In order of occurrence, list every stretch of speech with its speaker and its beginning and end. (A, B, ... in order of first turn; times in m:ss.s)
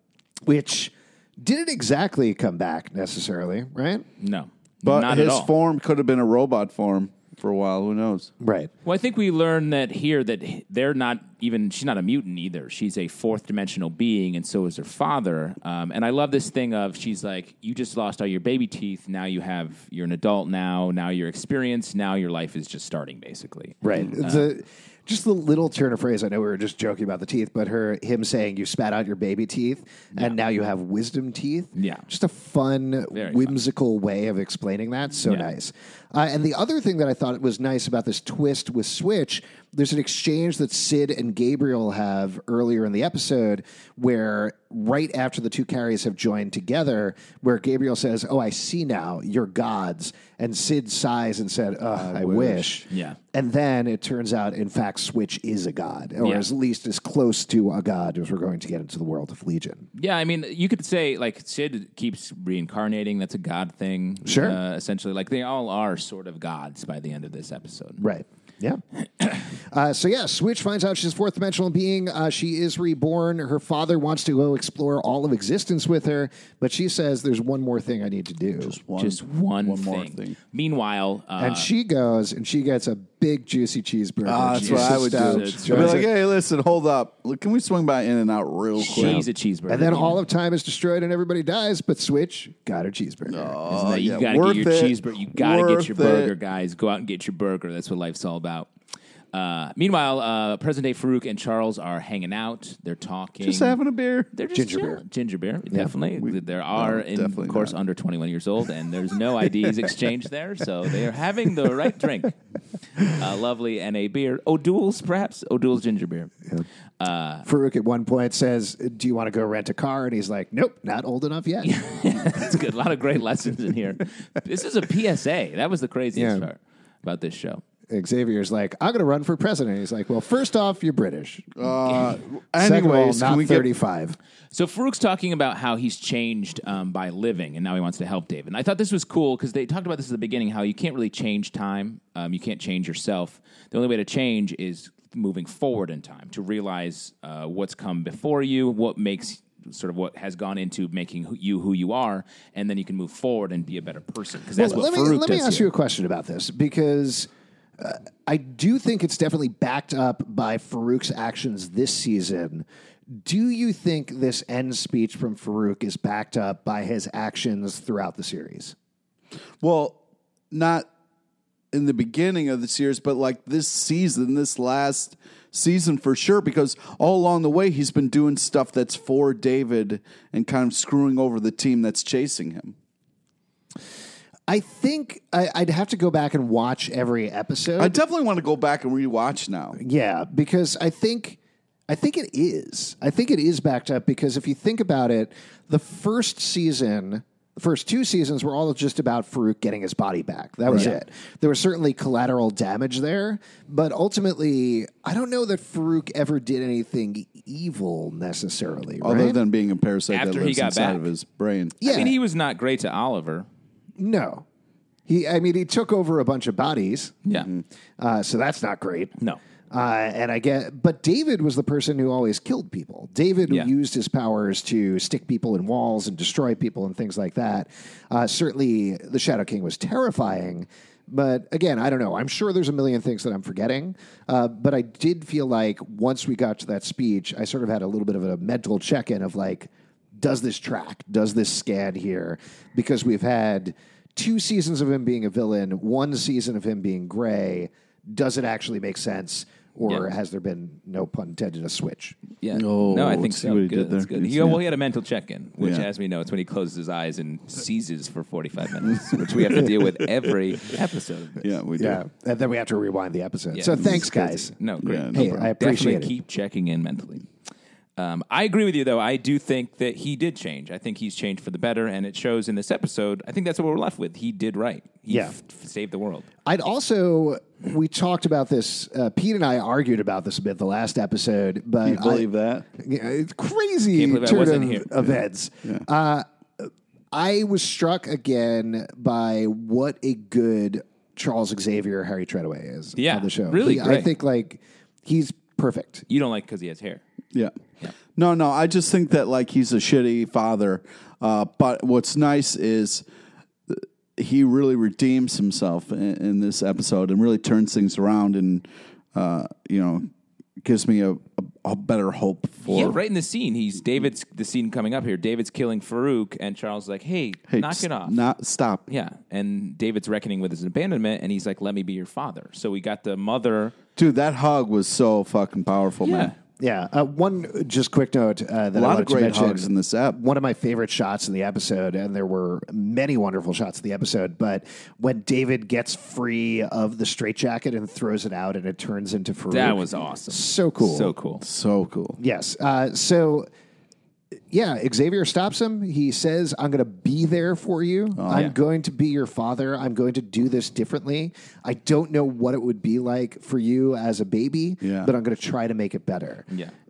0:00.5-0:04.1 A
0:04.2-0:05.5 B
0:04.8-0:08.3 C
0:08.4-0:08.7 A
0:08.8-0:24.5 B
0:23.8-0:59.9 A
0:31.8-0:32.1 B
0:33.1-0:33.6 B
0:52.0-0:52.8 C
0:52.9-0:53.2 B
0:56.2-0:56.5 B
1:00.0-1:08.0 B
1:04.2-1:04.6 A
1:08.0-1:08.8 A
1:09.5-1:18.8 A
1:18.6-1:20.4 C
1:19.0-1:21.7 B
1:21.4-1:26.1 A
1:24.2-1:29.2 C
1:24.5-1:26.1 B
1:28.8-1:30.2 B
1:28.9-1:33.6 A
1:33.3-1:36.3 C
1:33.7-1:38.7 B
1:39.3-1:43.8 B
1:43.4-1:44.3 C
1:44.3-1:52.4 B
1:44.5-1:45.0 A
1:46.2-1:47.8 C
1:53.0-1:56.4 B
1:57.0-1:57.5 B
1:57.5-2:02.4 A
2:01.6-2:07.6 B
2:06.1-2:06.5 A
2:07.9-2:11.7 A
2:11.6-2:13.7 C
2:12.6-2:14.2 A
2:14.5-2:35.7 B
2:34.6-2:48.8 A
2:49.6-2:50.0 C
2:50.5-2:50.9 C
2:51.7-3:02.8 C
3:04.5-3:08.0 A
3:07.8-3:09.8 C
3:09.8-3:29.4 A
3:29.0-3:31.8 C
3:30.1-3:31.0 B
3:31.8-3:32.2 A
3:31.8-3:33.5 B
3:34.0-3:34.4 A
3:35.1-3:37.3 A
3:37.4-3:37.6 C
3:38.0-3:39.2 A
3:39.7-4:12.2 A
4:12.4-4:21.5 B
4:12.5-4:14.6 C
4:15.6-4:15.9 C
4:18.9-4:20.3 C
4:21.4-4:22.0 C
4:21.8-4:24.5 A
4:23.5-4:27.3 B
4:24.8-4:25.5 C
4:25.1-4:26.1 A
4:28.0-4:36.3 B
4:35.1-4:35.4 A
4:36.4-4:56.1 A
4:41.8-4:42.7 C
4:43.9-4:45.1 B
4:53.0-4:54.1 B
4:56.1-4:57.0 B
4:58.1-5:03.0 C
5:03.7-5:10.1 C
5:10.6-5:13.0 C
5:12.7-5:18.2 B
5:17.5-5:18.9 C
5:18.9-5:23.8 B
5:24.0-5:26.4 C
5:26.0-5:26.3 B
5:26.6-5:41.2 A
5:28.8-5:30.2 C
5:39.5-5:41.4 B
5:41.4-5:42.2 C
5:42.2-5:43.5 A
5:44.5-5:56.5 A
5:48.2-5:48.5 C
5:54.8-5:55.1 C
5:56.5-5:56.7 B